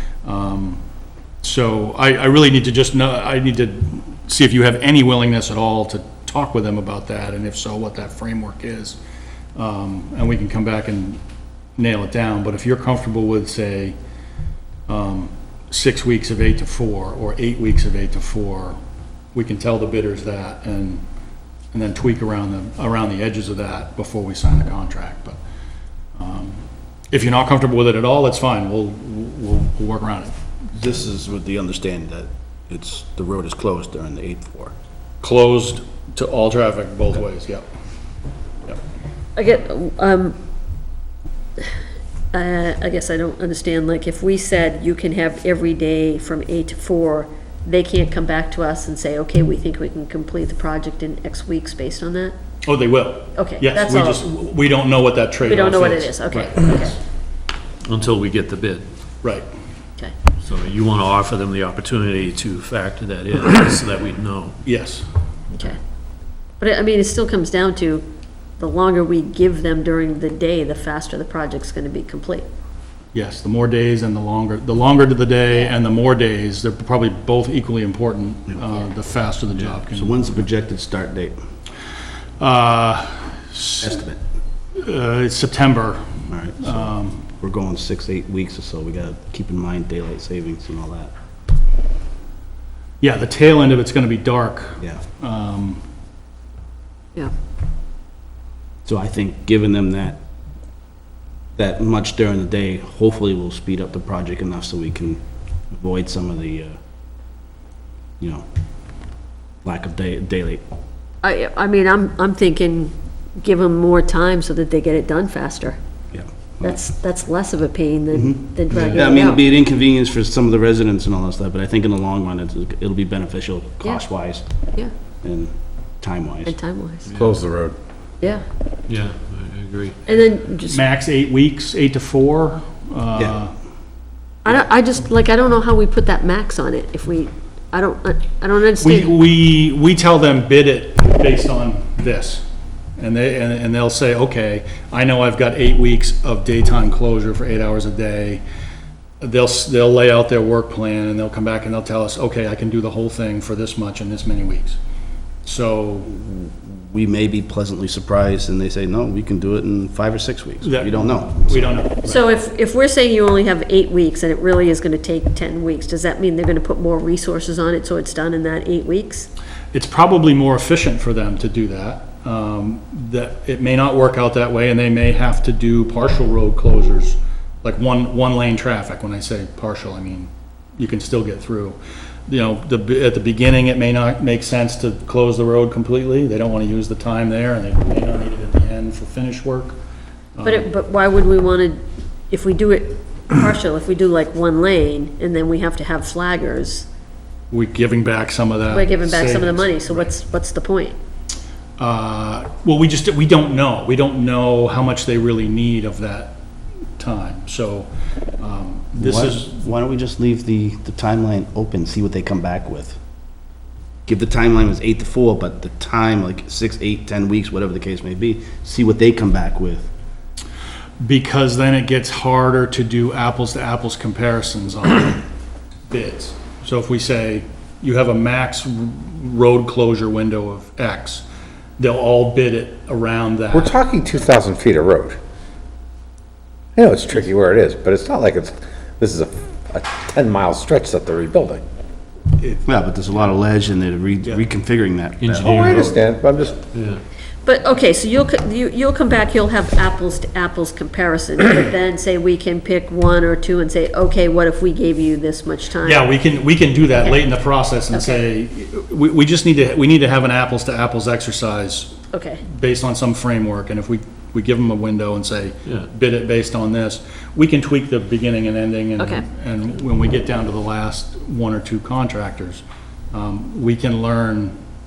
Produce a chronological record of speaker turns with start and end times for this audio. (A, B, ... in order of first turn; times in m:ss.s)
0:00.2-0:00.8 A
0:01.4-0:09.0 A
0:09.5-0:11.2 A
0:11.8-0:13.9 A
0:14.9-0:18.8 A
0:19.3-0:21.0 A
0:21.7-0:25.4 A
0:26.2-0:30.3 A
0:30.7-0:34.7 B
0:35.2-0:37.6 A
0:39.4-0:40.4 C
0:42.3-0:52.3 C
0:52.6-0:56.9 A
0:53.4-0:54.2 C
0:55.4-0:57.0 C
0:57.8-0:58.9 D
1:00.4-1:04.6 D
1:04.6-1:05.0 A
1:06.6-1:08.0 C
1:08.6-1:12.5 C
1:13.1-1:20.4 A
1:19.9-1:21.4 B
1:22.4-1:24.0 A
1:23.8-1:24.2 B
1:24.7-1:27.3 A
1:26.3-1:31.1 B
1:33.0-1:35.8 A
1:38.8-1:40.2 B
1:41.6-1:46.8 B
1:48.2-1:48.4 B
1:49.6-1:50.6 B
1:51.2-1:55.8 C
1:56.1-1:56.8 B
1:56.6-1:59.4 C
1:58.1-2:04.4 B
1:58.7-1:59.1 A
2:03.8-2:04.1 C
2:05.2-2:06.6 B
2:06.4-2:07.0 C
2:07.1-2:07.4 D
2:07.1-2:07.7 E
2:08.9-2:10.0 D
2:10.0-2:10.8 C
2:10.6-2:13.6 A
2:14.4-2:19.1 C
2:18.8-2:22.4 A
2:23.0-2:28.4 A
2:29.2-2:34.8 A
2:35.4-2:36.2 A
2:36.1-2:41.7 B
2:40.6-2:42.2 A
2:42.0-2:49.3 C
2:49.7-3:09.8 A
3:10.4-3:10.7 A
3:10.4-3:16.9 C
3:17.5-3:20.1 A
3:18.7-3:21.0 C
3:21.8-3:26.4 A
3:27.0-3:29.5 A
3:29.0-3:33.0 B
3:34.0-3:39.9 B
3:41.0-3:45.2 A
3:45.9-3:51.2 A
3:51.8-3:53.7 A
3:53.5-3:55.2 E
3:56.8-4:01.6 E
4:02.4-4:02.6 A
4:02.6-4:05.6 B
4:05.2-4:06.1 D
4:05.4-4:06.6 E
4:06.7-4:07.0 D
4:07.4-4:16.1 C
4:15.8-4:34.6 A
4:17.0-4:17.3 C
4:17.9-4:18.2 C
4:22.1-4:22.4 C
4:29.0-4:29.2 C